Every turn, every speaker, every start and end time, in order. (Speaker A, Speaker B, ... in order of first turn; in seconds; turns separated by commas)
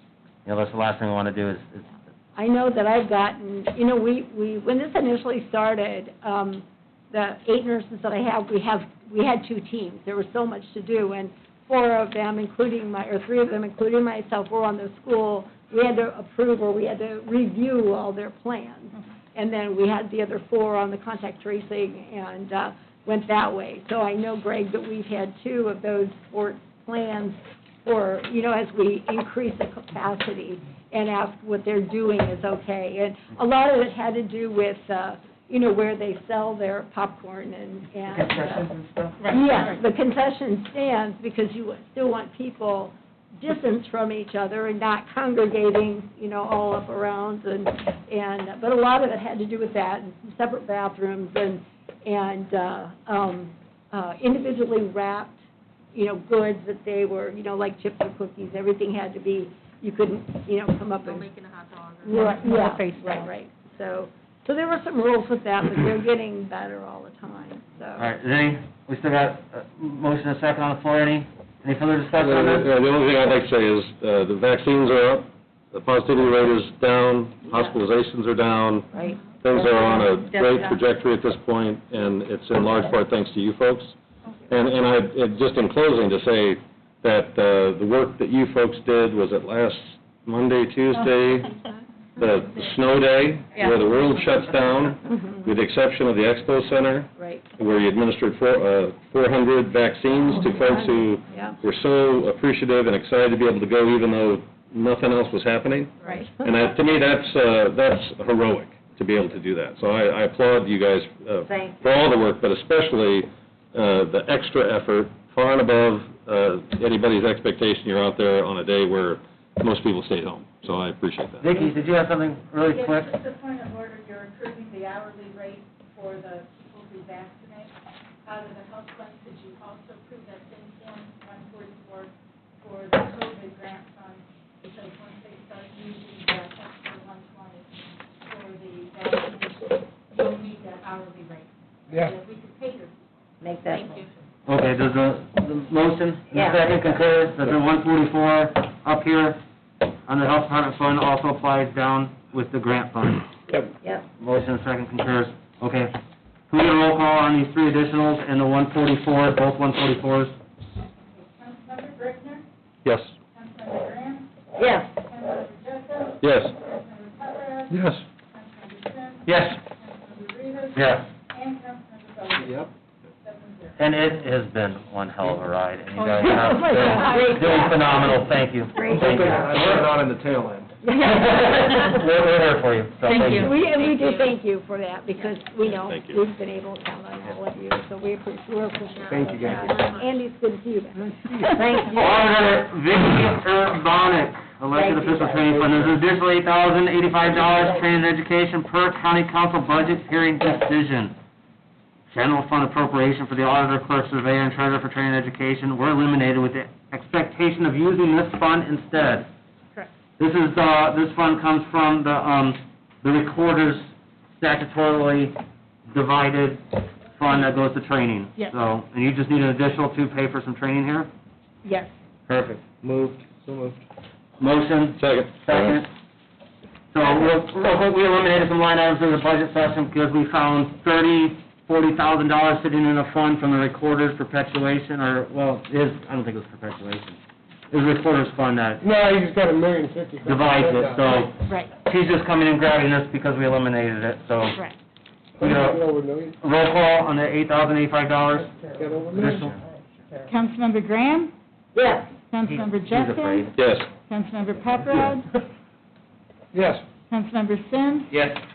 Speaker A: 0.4-2.0, Speaker B: 2.4-38.7, Speaker A: 38.1-39.2, Speaker C: 39.2-39.8, Speaker B: 39.3-61.3, Speaker D: 61.0-62.7, Speaker B: 62.0-68.1, Speaker C: 62.0-63.3, Speaker A: 68.0-72.7, Speaker E: 72.2-78.9, Speaker E: 79.4-83.9, Speaker E: 84.5-91.5, Speaker E: 92.2-121.5, Speaker B: 97.2-97.4, Speaker B: 100.3-101.6, Speaker B: 106.0-106.5, Speaker A: 121.4-123.1, Speaker C: 122.6-127.7, Speaker C: 128.2-143.0, Speaker F: 143.4-143.9, Speaker C: 143.7-144.0, Speaker D: 143.7-144.1, Speaker A: 144.4-149.4, Speaker F: 146.3-146.6, Speaker A: 150.1-153.2, Speaker F: 153.5-154.1, Speaker A: 154.2-155.9, Speaker A: 156.5-160.4, Speaker C: 161.0-162.4, Speaker E: 162.8-163.1, Speaker C: 163.3-172.7, Speaker F: 164.6-164.9, Speaker E: 166.2-166.5, Speaker E: 167.7-168.0, Speaker A: 169.2-169.6, Speaker A: 170.7-171.1, Speaker C: 173.2-173.8, Speaker A: 173.8-179.9, Speaker C: 175.9-177.6, Speaker F: 177.1-178.2, Speaker F: 178.7-179.5, Speaker G: 179.0-180.5, Speaker B: 180.8-181.8, Speaker A: 180.9-183.5, Speaker C: 183.0-183.5, Speaker B: 183.3-191.6, Speaker D: 183.5-184.3, Speaker E: 185.7-186.2, Speaker D: 188.9-190.2, Speaker G: 189.1-189.8, Speaker F: 191.5-192.3, Speaker A: 191.8-201.1, Speaker F: 194.7-195.7, Speaker A: 202.1-209.3, Speaker A: 210.2-221.1, Speaker C: 221.6-221.9, Speaker A: 222.3-222.6, Speaker G: 222.8-223.8, Speaker A: 224.4-225.9, Speaker E: 225.0-225.8, Speaker A: 226.9-237.2, Speaker A: 237.7-238.8, Speaker G: 238.8-241.2, Speaker A: 240.2-244.6, Speaker C: 241.4-241.7, Speaker G: 245.4-246.4, Speaker A: 245.4-245.8, Speaker A: 246.4-249.6, Speaker G: 248.7-249.6, Speaker C: 250.2-251.3, Speaker F: 251.7-252.1, Speaker C: 252.3-253.5, Speaker A: 252.5-253.5, Speaker E: 253.6-253.9, Speaker C: 254.0-255.3, Speaker G: 256.5-256.8, Speaker C: 257.1-258.1, Speaker A: 258.1-258.4